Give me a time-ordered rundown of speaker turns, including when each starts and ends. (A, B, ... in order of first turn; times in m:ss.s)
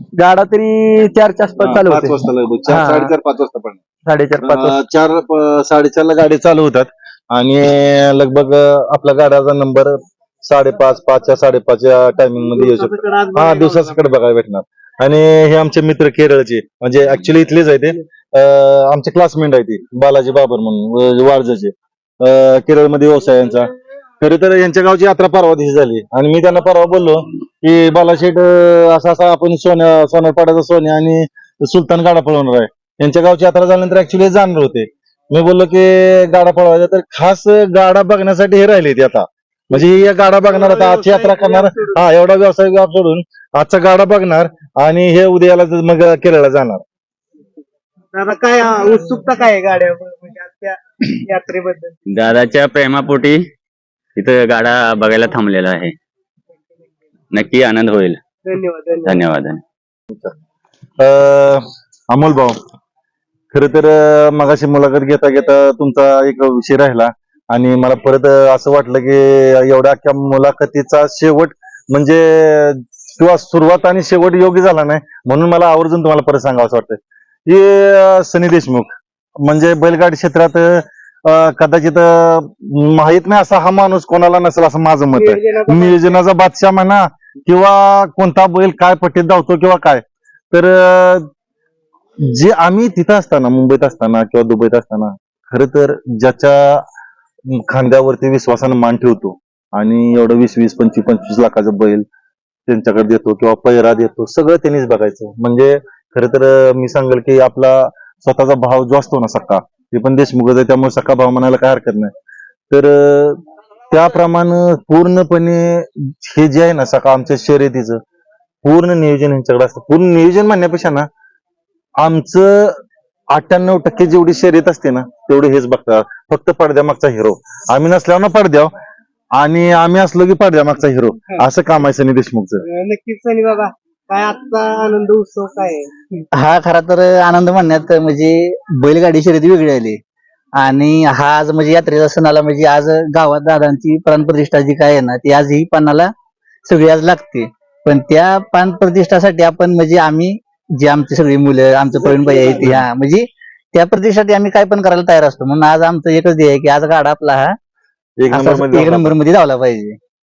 0:00.2-0:03.1 A
0:01.6-0:03.8 B
0:04.0-0:04.8 A
0:04.4-0:46.8 B
0:12.4-0:14.1 C
0:39.7-0:42.0 C
0:48.1-0:52.0 C
0:52.1-0:53.4 D
0:54.2-0:55.9 D
0:57.3-0:58.2 D
0:58.4-0:59.2 C
0:59.0-0:59.6 D
1:00.1-1:00.3 B
1:01.0-1:02.6 B
1:03.5-1:31.3 B
1:25.1-1:26.2 C
1:32.2-1:36.8 B
1:37.5-1:42.0 B
1:42.7-1:52.1 B
1:52.7-1:58.0 B
1:58.6-2:01.1 B
2:02.0-2:02.8 B
2:03.3-2:08.7 B
2:09.4-2:12.6 B
2:12.6-2:16.2 C
2:16.3-2:20.0 E
2:20.6-2:26.1 E
2:26.6-2:37.6 E
2:31.9-2:32.8 C
2:38.2-2:39.1 B
2:38.3-2:40.0 E